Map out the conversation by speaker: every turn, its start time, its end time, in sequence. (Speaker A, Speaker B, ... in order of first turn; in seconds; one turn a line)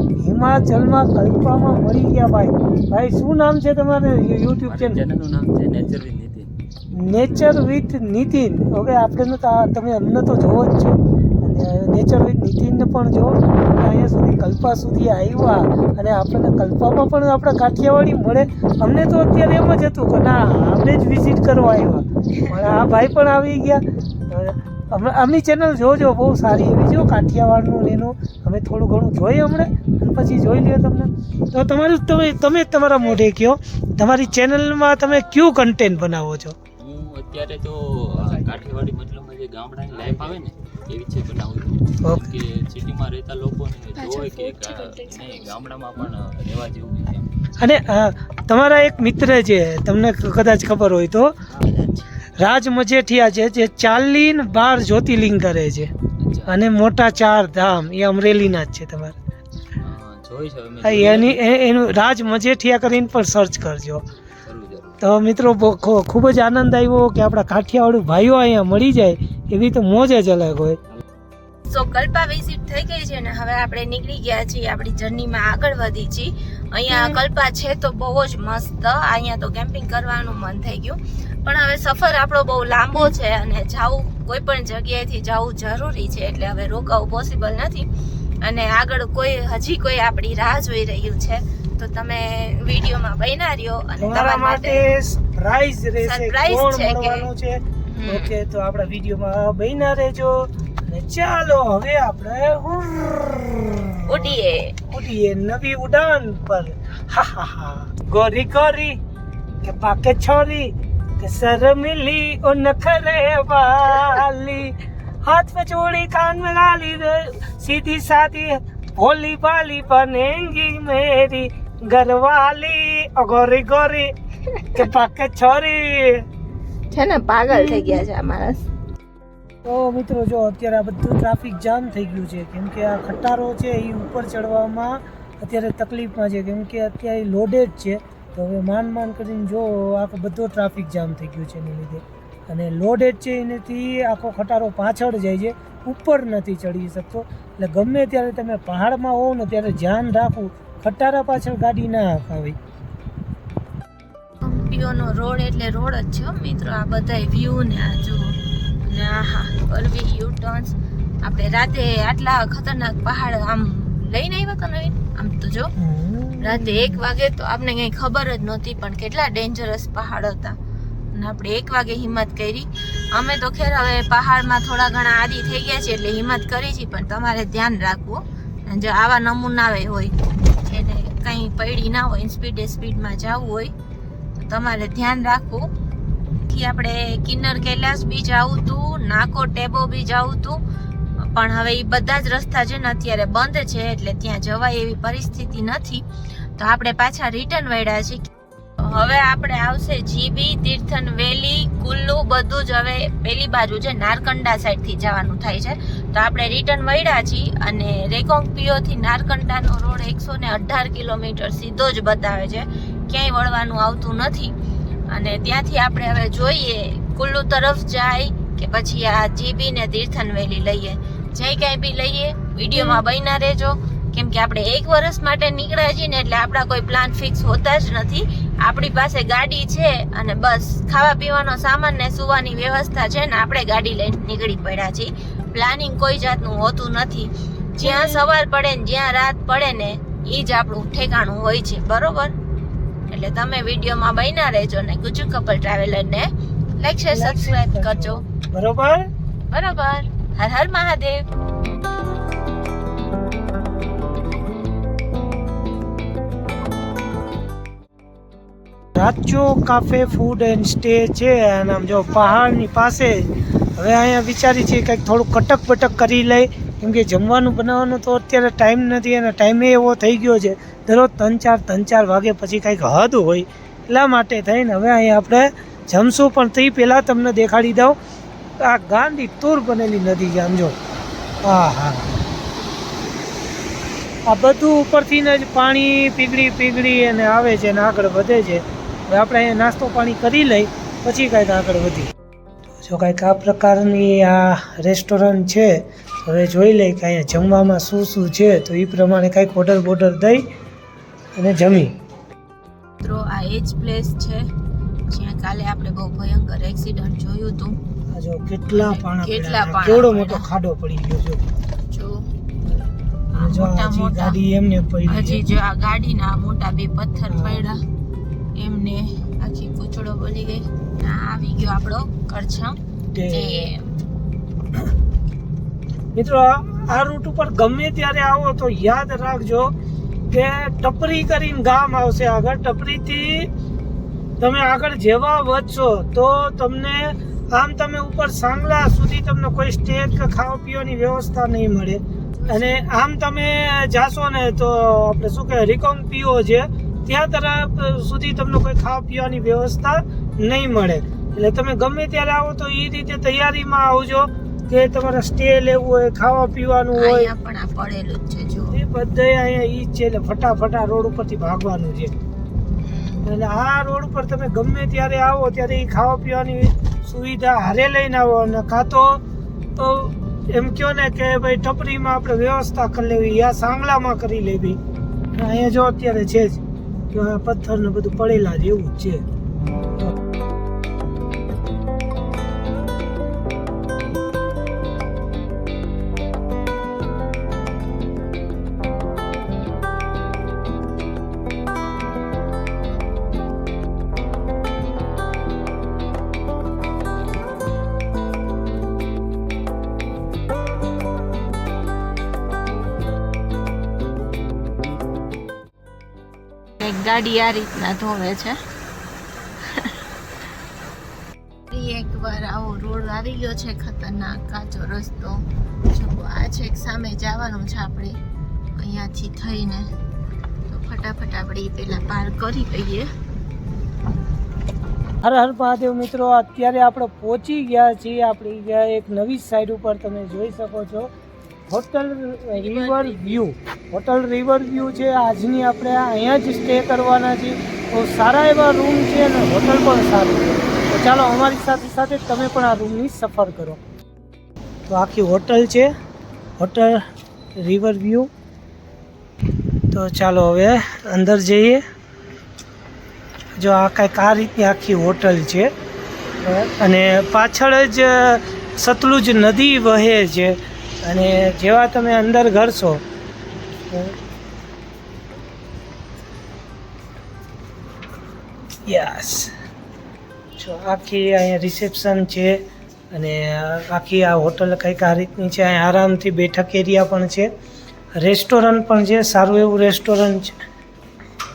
Speaker A: 0.2-5.0
Speaker B: 4.7-6.5
Speaker A: 6.9-36.6
Speaker B: 36.8-47.3
Speaker A: 42.0-42.3
Speaker C: 44.0-45.6
Speaker A: 47.6-51.4
Speaker C: 51.6-52.1
Speaker A: 52.4-55.9
Speaker B: 56.2-56.6
Speaker A: 56.5-59.2
Speaker B: 59.8-61.4
Speaker A: 60.8-64.0
Speaker B: 64.4-65.0
Speaker A: 65.0-70.8
Speaker C: 71.7-87.9
Speaker C: 88.4-94.8
Speaker A: 94.0-104.3
Speaker C: 96.0-97.2
Speaker C: 97.9-98.3
Speaker C: 104.1-104.8
Speaker A: 104.9-109.0
Speaker A: 109.6-124.1
Speaker A: 124.7-126.2
Speaker C: 126.9-128.6
Speaker A: 129.6-152.6
Speaker C: 154.4-165.7
Speaker A: 165.8-167.0
Speaker C: 166.4-170.6
Speaker C: 171.1-183.7
Speaker C: 184.3-185.7
Speaker C: 186.5-190.6
Speaker C: 191.2-196.1
Speaker C: 196.6-214.5
Speaker C: 215.1-242.3
Speaker C: 243.1-248.2
Speaker A: 247.1-249.1
Speaker C: 249.5-251.2
Speaker A: 258.9-278.0
Speaker A: 278.6-280.8
Speaker A: 281.4-282.1
Speaker A: 284.3-292.1
Speaker A: 292.8-300.5
Speaker A: 301.4-302.0
Speaker C: 303.0-304.5
Speaker C: 305.1-307.8
Speaker A: 308.1-311.4
Speaker C: 308.7-310.4
Speaker C: 311.9-312.2
Speaker A: 312.7-315.4
Speaker C: 313.3-314.4
Speaker C: 315.1-317.8
Speaker A: 317.3-317.6
Speaker C: 318.5-322.8
Speaker A: 323.1-323.7
Speaker C: 323.3-323.9
Speaker A: 326.1-329.7
Speaker A: 330.3-333.5
Speaker A: 334.4-357.3
Speaker C: 342.3-342.8
Speaker C: 356.9-358.8
Speaker A: 358.7-362.1
Speaker C: 362.8-363.2
Speaker A: 363.2-369.2
Speaker A: 369.8-374.8
Speaker A: 375.3-379.2
Speaker C: 406.8-408.6
Speaker C: 409.6-410.0
Speaker C: 411.7-418.2
Speaker C: 418.7-419.9
Speaker C: 420.7-423.1
Speaker A: 425.2-431.1
Speaker A: 431.7-443.8
Speaker C: 432.5-433.4
Speaker A: 444.9-445.9
Speaker A: 446.6-447.0
Speaker A: 447.6-448.3
Speaker A: 449.9-451.8
Speaker A: 453.6-455.7
Speaker A: 456.4-463.0
Speaker A: 463.9-464.2
Speaker A: 468.9-469.5
Speaker A: 470.6-472.6
Speaker A: 473.1-477.5
Speaker A: 478.1-480.6